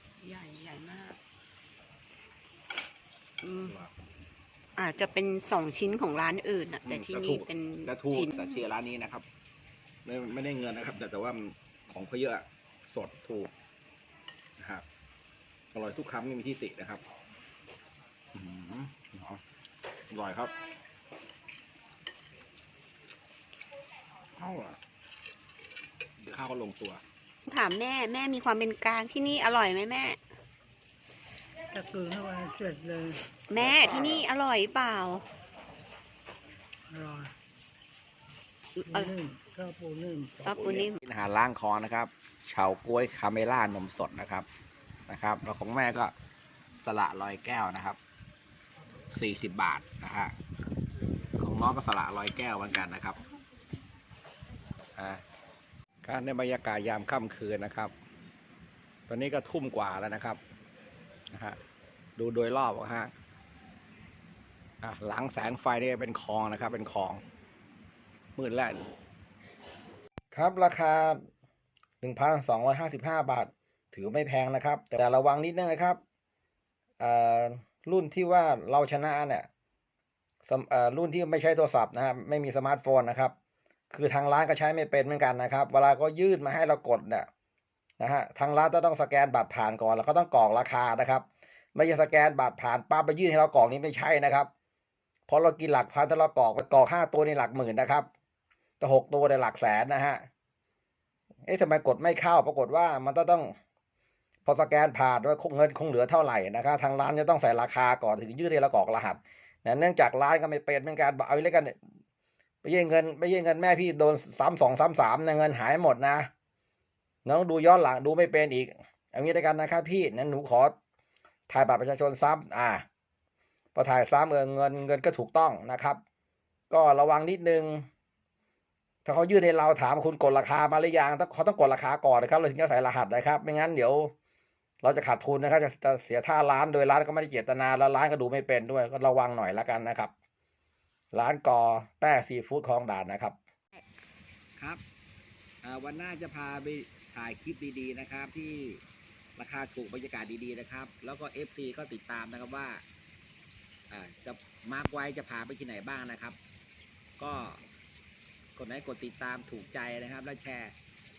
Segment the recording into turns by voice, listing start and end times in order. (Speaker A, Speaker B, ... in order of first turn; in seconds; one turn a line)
Speaker A: 0.2-1.2
Speaker A: 3.4-3.8
Speaker B: 3.6-3.9
Speaker A: 4.8-8.7
Speaker B: 6.8-9.2
Speaker B: 10.0-13.5
Speaker B: 14.6-14.8
Speaker B: 15.7-17.0
Speaker B: 18.3-19.4
Speaker B: 20.1-20.5
Speaker B: 24.4-24.8
Speaker B: 26.2-27.0
Speaker A: 27.5-30.2
Speaker C: 31.7-33.2
Speaker A: 33.4-35.2
Speaker B: 33.5-34.3
Speaker C: 36.9-37.3
Speaker A: 38.7-39.1
Speaker C: 38.9-40.4
Speaker A: 40.4-41.0
Speaker B: 40.4-44.5
Speaker B: 45.1-46.1
Speaker B: 46.8-48.0
Speaker B: 49.1-50.3
Speaker B: 51.4-53.2
Speaker B: 55.0-55.2
Speaker B: 56.0-57.9
Speaker B: 59.1-60.4
Speaker B: 61.3-61.6
Speaker B: 62.2-63.1
Speaker B: 64.8-67.2
Speaker B: 68.3-68.8
Speaker B: 70.3-71.2
Speaker B: 72.0-76.0
Speaker B: 77.0-79.5
Speaker B: 80.5-83.3
Speaker B: 83.9-87.3
Speaker B: 88.0-94.5
Speaker B: 95.3-98.1
Speaker B: 98.8-100.2
Speaker B: 101.5-103.5
Speaker B: 104.4-111.7
Speaker B: 112.6-116.3
Speaker B: 117.2-120.7
Speaker B: 121.5-122.8
Speaker B: 123.7-126.0
Speaker B: 126.7-127.8
Speaker B: 129.0-134.1
Speaker B: 134.8-140.1
Speaker B: 141.1-143.4
Speaker B: 145.6-148.8
Speaker B: 149.4-152.8
Speaker B: 153.9-156.4
Speaker B: 157.2-157.6
Speaker B: 158.6-160.7